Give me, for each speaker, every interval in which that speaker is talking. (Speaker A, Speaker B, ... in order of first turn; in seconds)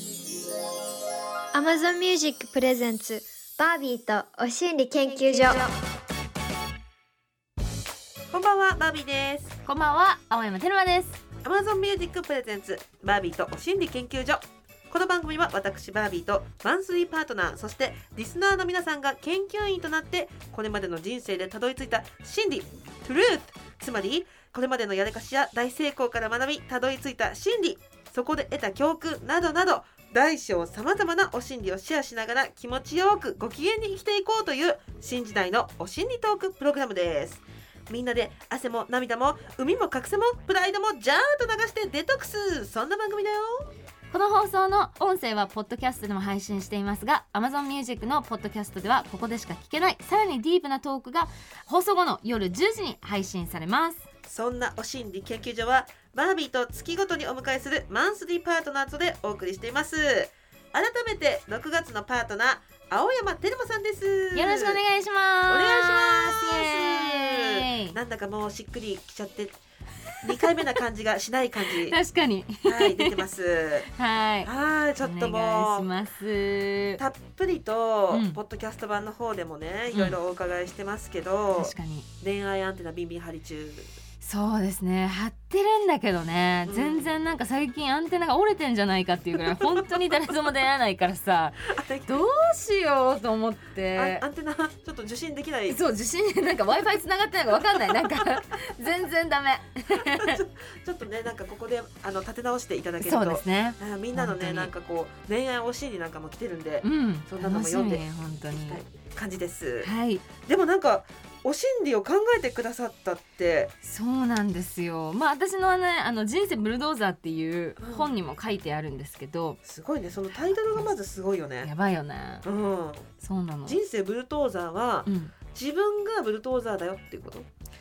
Speaker A: 1.5-5.7
Speaker B: 8.3-9.6, 11.4-43.7, 54.3-64.8, 65.5-69.6, 70.2-72.0, 72.6-73.9, 74.4-75.9, 77.0-83.9, 86.7-87.2, 89.4-90.0, 91.7-92.2, 93.9-95.8, 97.7-98.3, 99.9-113.7, 117.8-118.1, 119.6-121.7, 122.4-123.1, 123.7-127.5
Speaker C: 9.6-11.2, 44.1-54.1, 64.3-68.0, 71.8-73.3, 73.9-77.0, 78.1-78.4, 79.9-80.2, 81.5-82.1, 84.2-94.2, 95.7-100.4, 103.0-104.7, 106.8-108.8, 109.8-110.2, 113.8-119.6, 121.6-122.5, 123.2-123.8, 125.0-125.4